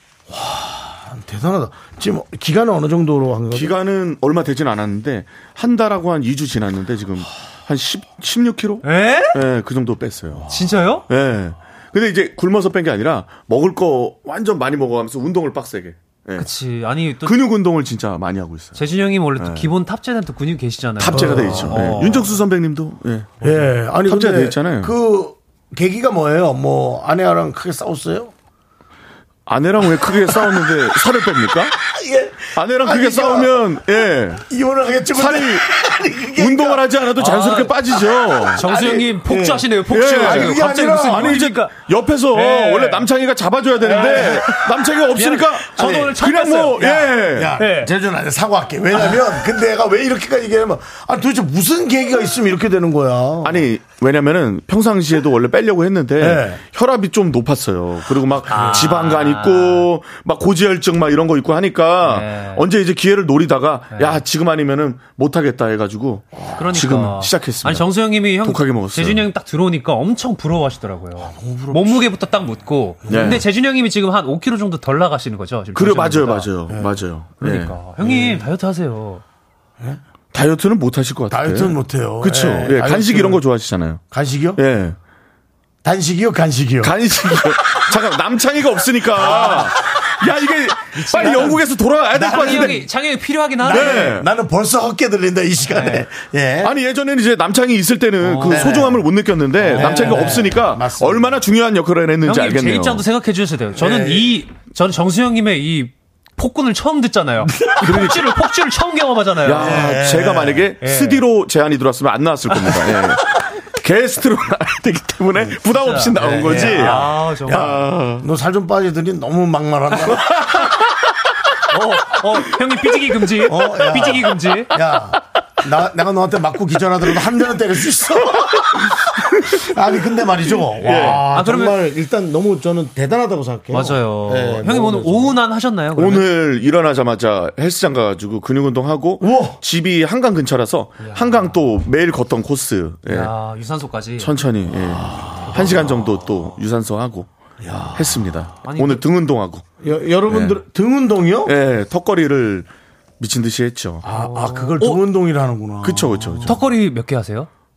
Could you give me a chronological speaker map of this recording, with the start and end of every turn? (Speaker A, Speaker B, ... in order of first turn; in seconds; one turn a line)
Speaker A: 0.3-3.8
Speaker B: 3.5-10.5
Speaker C: 8.8-9.4
Speaker A: 10.3-10.8
Speaker C: 10.5-11.1
Speaker B: 11.1-16.5
Speaker C: 16.4-17.4
Speaker B: 17.2-18.8
Speaker C: 18.8-22.4
Speaker B: 19.4-19.7
Speaker B: 21.0-23.5
Speaker A: 21.1-21.9
Speaker A: 23.4-28.3
Speaker B: 24.1-24.9
Speaker B: 29.5-31.7
Speaker A: 30.0-30.9
Speaker A: 31.7-36.9
Speaker B: 32.6-34.4
Speaker B: 35.1-35.7
Speaker B: 36.4-38.6
Speaker C: 37.2-37.8
Speaker C: 38.6-41.7
Speaker A: 38.6-41.5
Speaker B: 39.9-47.6
Speaker C: 42.3-43.1
Speaker C: 43.8-47.9
Speaker A: 43.9-44.5
Speaker A: 45.8-46.1
Speaker A: 46.8-53.7
Speaker B: 53.4-69.3
Speaker A: 56.2-56.6
Speaker C: 58.5-59.9
Speaker C: 62.0-62.6
Speaker C: 63.9-64.2
Speaker C: 66.5-76.5
Speaker A: 71.2-72.1
Speaker A: 73.1-73.5
Speaker B: 73.1-73.4
Speaker B: 75.8-78.4
Speaker A: 76.7-77.0
Speaker C: 77.4-79.2
Speaker B: 80.3-84.0
Speaker A: 81.3-83.4
Speaker A: 84.1-84.6
Speaker B: 84.6-85.0
Speaker A: 85.8-87.6
Speaker B: 86.8-92.9
Speaker A: 89.2-89.9
Speaker C: 89.2-89.7
Speaker C: 90.9-94.2
Speaker A: 91.2-91.6
Speaker A: 92.1-92.8
Speaker A: 93.6-96.7
Speaker B: 93.7-94.3
Speaker C: 95.7-96.0
Speaker B: 96.6-103.0
Speaker C: 98.2-98.8
Speaker A: 98.4-99.1
Speaker A: 99.6-101.4
Speaker C: 99.6-100.6
Speaker C: 102.2-110.0
Speaker A: 103.8-104.4
Speaker A: 107.6-108.0
Speaker B: 107.8-108.2
Speaker B: 109.4-118.3
Speaker A: 109.5-110.7
Speaker C: 110.8-111.2
Speaker C: 115.7-117.8
Speaker A: 116.2-117.5
Speaker A: 118.2-120.6
Speaker B: 120.3-120.7
Speaker C: 121.7-124.8
Speaker A: 123.4-135.4
Speaker C: 130.8-131.8
Speaker B: 130.8-131.3
Speaker C: 133.7-136.3
Speaker B: 135.9-143.3
Speaker A: 139.2-139.6
Speaker C: 141.0-141.5
Speaker C: 143.1-144.3
Speaker B: 144.2-147.3
Speaker A: 144.9-145.9
Speaker C: 145.4-146.0
Speaker A: 147.6-148.4
Speaker B: 148.0-149.7
Speaker C: 148.6-149.1
Speaker A: 149.8-151.6
Speaker B: 150.3-150.6
Speaker B: 151.5-154.1
Speaker A: 154.0-156.6
Speaker C: 154.1-155.0
Speaker B: 155.8-156.6
Speaker C: 156.4-157.5